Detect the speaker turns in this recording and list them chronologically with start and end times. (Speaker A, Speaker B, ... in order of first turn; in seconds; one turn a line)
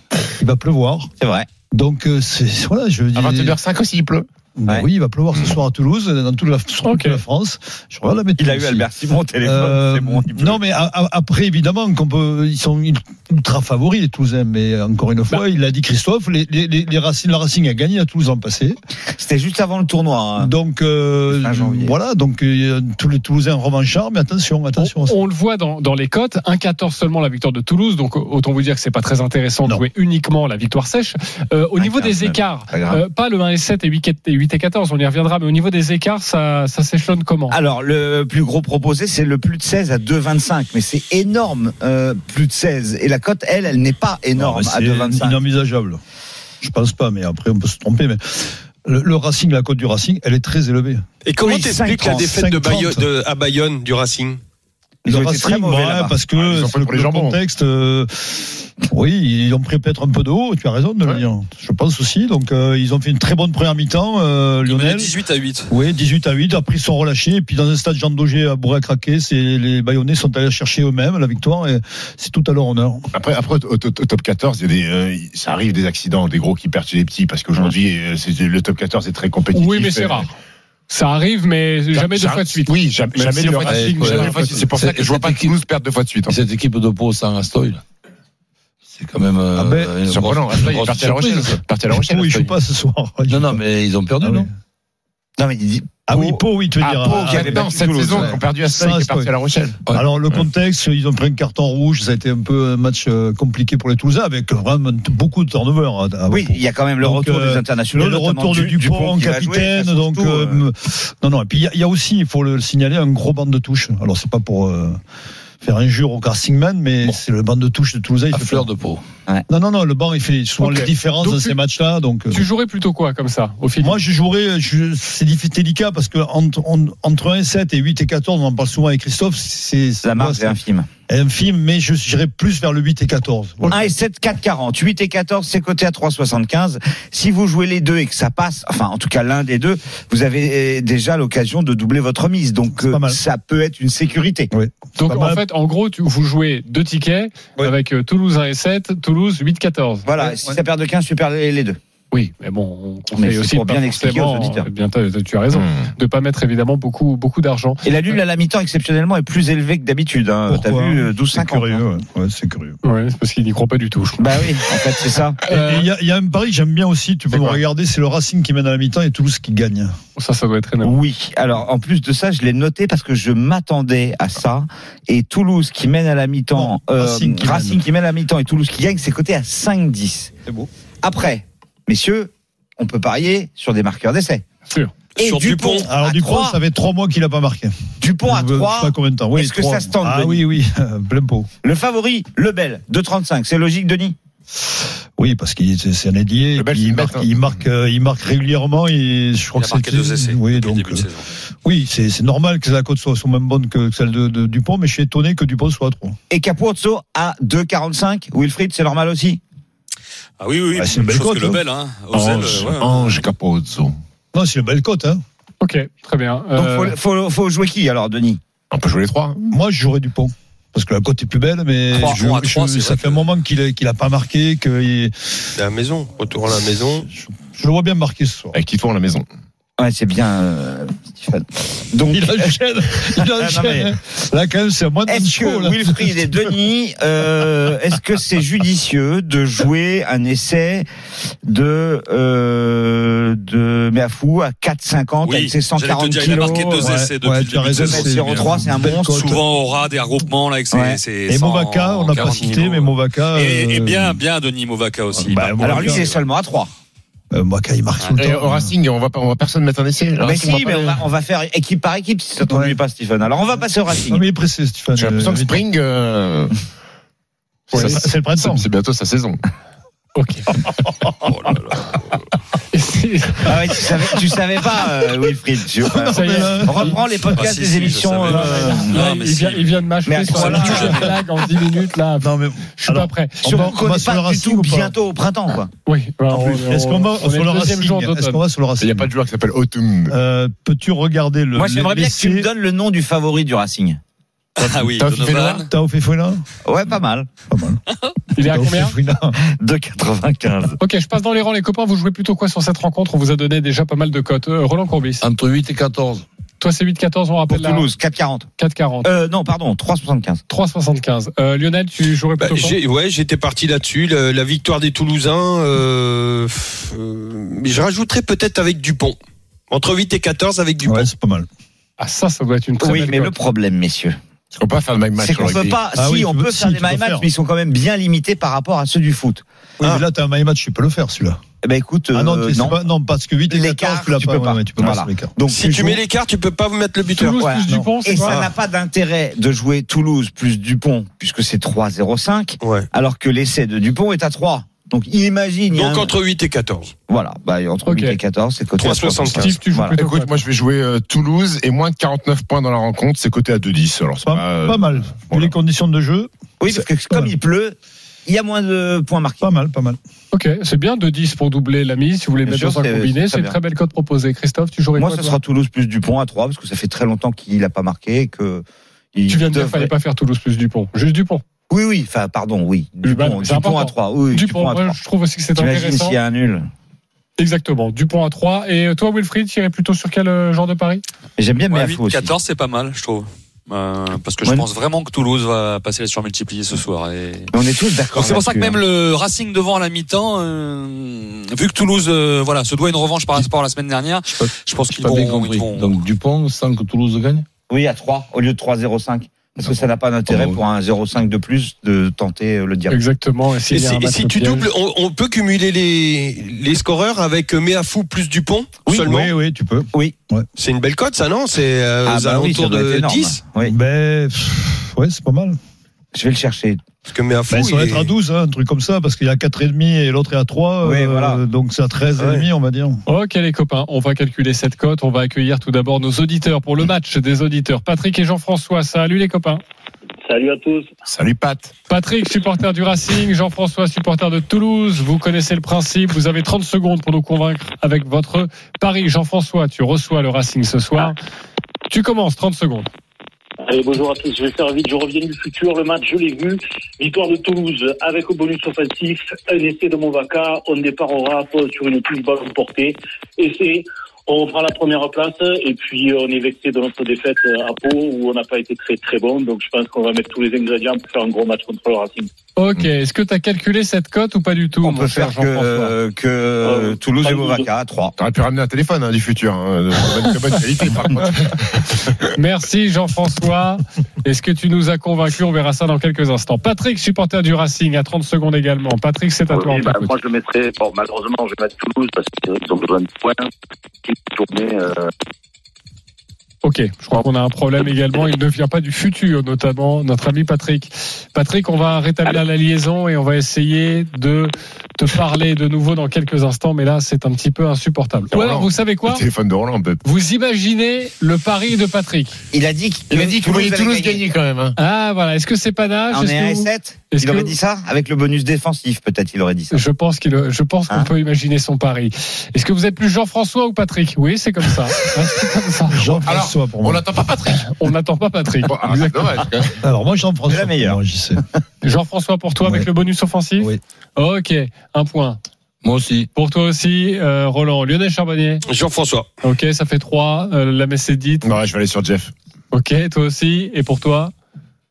Speaker A: 0.3-1.1
Speaker B: 1.2-1.5
Speaker A: 1.7-3.6
Speaker C: 3.1-4.3
Speaker A: 4.5-8.8
Speaker D: 6.8-7.2
Speaker B: 8.4-10.6
Speaker A: 9.4-18.8
Speaker B: 19.1-20.5
Speaker A: 20.4-25.2
Speaker B: 21.3-21.9
Speaker D: 24.8-37.5
Speaker B: 31.8-33.0
Speaker B: 37.5-45.4
Speaker A: 44.4-46.0
Speaker A: 46.6-51.0
Speaker E: 51.2-54.4
Speaker B: 51.4-52.2
Speaker A: 51.6-53.0
Speaker B: 55.0-56.2
Speaker A: 55.0-65.1
Speaker C: 56.3-57.4
Speaker F: 64.6-65.7
Speaker A: 65.7-73.1
Speaker C: 73.1-80.3
Speaker D: 79.5-80.3
Speaker D: 80.9-84.6
Speaker C: 81.9-86.4
Speaker G: 83.7-85.6
Speaker G: 86.3-87.8
Speaker G: 88.9-91.6
Speaker A: 89.5-90.0
Speaker C: 90.0-92.5
Speaker A: 91.9-93.6
Speaker G: 93.3-94.5
Speaker A: 94.2-94.5
Speaker B: 95.4-96.4
Speaker A: 96.1-99.3
Speaker C: 96.8-99.8
Speaker B: 97.0-98.4
Speaker A: 99.9-115.0
Speaker B: 106.3-110.6
Speaker A: 115.6-118.7
Speaker G: 118.3-119.0
Speaker A: 119.5-122.4
Speaker D: 120.6-121.5
Speaker D: 122.3-124.0
Speaker A: 123.8-133.9
Speaker B: 130.0-130.9
Speaker B: 133.7-144.5
Speaker A: 142.7-143.2
Speaker A: 144.5-145.4
Speaker D: 145.0-150.1
Speaker B: 150.1-151.8
Speaker A: 150.2-150.6
Speaker D: 152.1-157.8
Speaker B: 153.1-154.7
Speaker C: 155.5-155.9
Speaker B: 157.8-161.8
Speaker A: 160.5-162.8
Speaker D: 162.8-164.3
Speaker B: 164.2-165.4
Speaker D: 165.5-165.9
Speaker A: 165.5-169.9
Speaker C: 167.3-167.6
Speaker D: 170.2-170.9
Speaker B: 170.8-184.4
Speaker A: 176.5-177.8
Speaker B: 185.2-186.6
Speaker E: 185.2-185.9
Speaker A: 185.9-191.5
Speaker B: 188.0-190.4
Speaker B: 191.6-194.1
Speaker A: 195.2-201.1
Speaker C: 196.6-197.6
Speaker F: 199.6-201.2
Speaker A: 201.6-206.2
Speaker B: 206.3-209.4
Speaker F: 210.4-213.2
Speaker A: 210.7-211.6
Speaker C: 212.1-213.9
Speaker A: 214.3-215.2
Speaker D: 215.6-216.9
Speaker B: 216.5-218.4
Speaker C: 218.7-219.5
Speaker A: 219.5-225.4
Speaker F: 221.9-223.2
Speaker E: 225.6-227.1
Speaker A: 227.0-228.6
Speaker C: 228.5-229.2
Speaker B: 229.8-232.6
Speaker A: 232.1-236.5
Speaker B: 233.1-233.9
Speaker B: 235.1-240.9
Speaker B: 241.4-246.9
Speaker F: 245.2-256.1
Speaker A: 246.8-249.4
Speaker B: 247.7-249.4
Speaker B: 250.7-251.0
Speaker A: 251.3-254.2
Speaker A: 255.2-256.1
Speaker B: 255.6-256.7
Speaker A: 257.3-258.7
Speaker C: 258.1-261.0
Speaker B: 260.2-264.2
Speaker A: 262.5-262.8
Speaker A: 264.0-265.6
Speaker C: 264.9-266.5
Speaker A: 267.7-268.6
Speaker D: 267.7-268.0
Speaker C: 267.7-269.4
Speaker D: 270.1-270.5
Speaker F: 271.2-272.0
Speaker D: 272.7-273.6
Speaker B: 273.4-278.9
Speaker A: 275.8-277.3
Speaker D: 276.1-277.0
Speaker F: 277.3-281.1
Speaker A: 278.3-278.8
Speaker D: 278.3-283.7
Speaker B: 280.1-281.1
Speaker A: 280.4-281.0
Speaker A: 282.2-284.9
Speaker B: 283.4-285.7
Speaker D: 285.9-288.4
Speaker A: 286.3-289.1
Speaker C: 288.8-290.1
Speaker A: 290.1-292.5
Speaker B: 291.5-294.0
Speaker F: 294.6-295.7
Speaker C: 294.6-295.6
Speaker A: 295.6-296.4
Speaker B: 296.6-297.3
Speaker A: 297.5-297.8
Speaker D: 298.4-298.9
Speaker A: 298.4-299.4
Speaker B: 299.4-300.8
Speaker D: 300.8-305.2
Speaker G: 305.2-306.2
Speaker D: 306.6-307.9
Speaker B: 307.5-308.5
Speaker D: 308.6-309.1
Speaker B: 309.0-310.4
Speaker D: 310.5-312.8
Speaker E: 312.4-319.2
Speaker E: 319.7-321.1
Speaker A: 320.8-321.5
Speaker D: 322.0-323.3
Speaker B: 322.8-324.2
Speaker C: 324.5-325.8
Speaker B: 325.2-329.4
Speaker A: 325.9-327.3
Speaker A: 329.8-331.4
Speaker B: 331.6-332.8
Speaker A: 332.1-335.3
Speaker B: 333.5-336.0
Speaker E: 335.5-337.4
Speaker D: 337.1-338.4
Speaker B: 337.4-346.1
Speaker E: 338.2-338.5
Speaker E: 342.6-342.9
Speaker E: 345.7-346.9
Speaker B: 347.1-349.9
Speaker D: 347.9-348.2
Speaker E: 348.8-349.6
Speaker D: 349.3-350.4
Speaker C: 349.9-355.5
Speaker A: 354.2-357.3
Speaker B: 356.6-359.4
Speaker A: 359.4-360.0
Speaker D: 360.3-365.4
Speaker B: 362.4-363.6
Speaker B: 364.9-369.9
Speaker D: 369.3-371.4
Speaker B: 371.7-375.0
Speaker D: 373.0-376.2
Speaker B: 375.6-376.7
Speaker D: 377.4-381.0
Speaker B: 381.4-382.3
Speaker F: 381.7-387.5
Speaker B: 387.5-388.8
Speaker F: 388.1-395.9
Speaker G: 394.3-397.4
Speaker B: 397.7-403.0
Speaker G: 400.3-400.6
Speaker D: 402.9-404.7
Speaker E: 403.7-409.3
Speaker A: 408.9-410.5
Speaker E: 410.6-413.4
Speaker B: 412.1-413.7
Speaker A: 413.6-415.6
Speaker B: 416.1-416.9
Speaker E: 417.1-418.1
Speaker A: 417.5-423.0
Speaker B: 420.8-421.4
Speaker D: 423.1-429.6
Speaker H: 430.2-430.9
Speaker C: 431.1-431.7
Speaker D: 431.9-441.2
Speaker D: 441.9-442.9
Speaker H: 443.6-462.3
Speaker D: 462.6-465.9
Speaker B: 464.8-468.1
Speaker H: 466.6-467.7
Speaker C: 468.2-472.2
Speaker D: 472.3-480.1
Speaker I: 479.5-483.5
Speaker I: 484.0-485.1
Speaker D: 486.6-499.2
Speaker C: 498.3-500.0
Speaker D: 500.0-502.4
Speaker B: 502.5-504.2
Speaker C: 503.1-504.8
Speaker D: 504.8-507.5
Speaker B: 506.1-509.8
Speaker D: 509.7-516.3
Speaker A: 515.9-517.0
Speaker C: 516.2-517.8
Speaker D: 517.5-519.5
Speaker C: 518.6-519.8
Speaker A: 519.8-521.4
Speaker B: 520.5-521.0
Speaker D: 521.8-525.4
Speaker G: 525.8-526.3
Speaker D: 526.3-528.6
Speaker E: 528.6-529.3
Speaker D: 529.4-531.5
Speaker C: 531.4-532.3
Speaker D: 532.7-534.3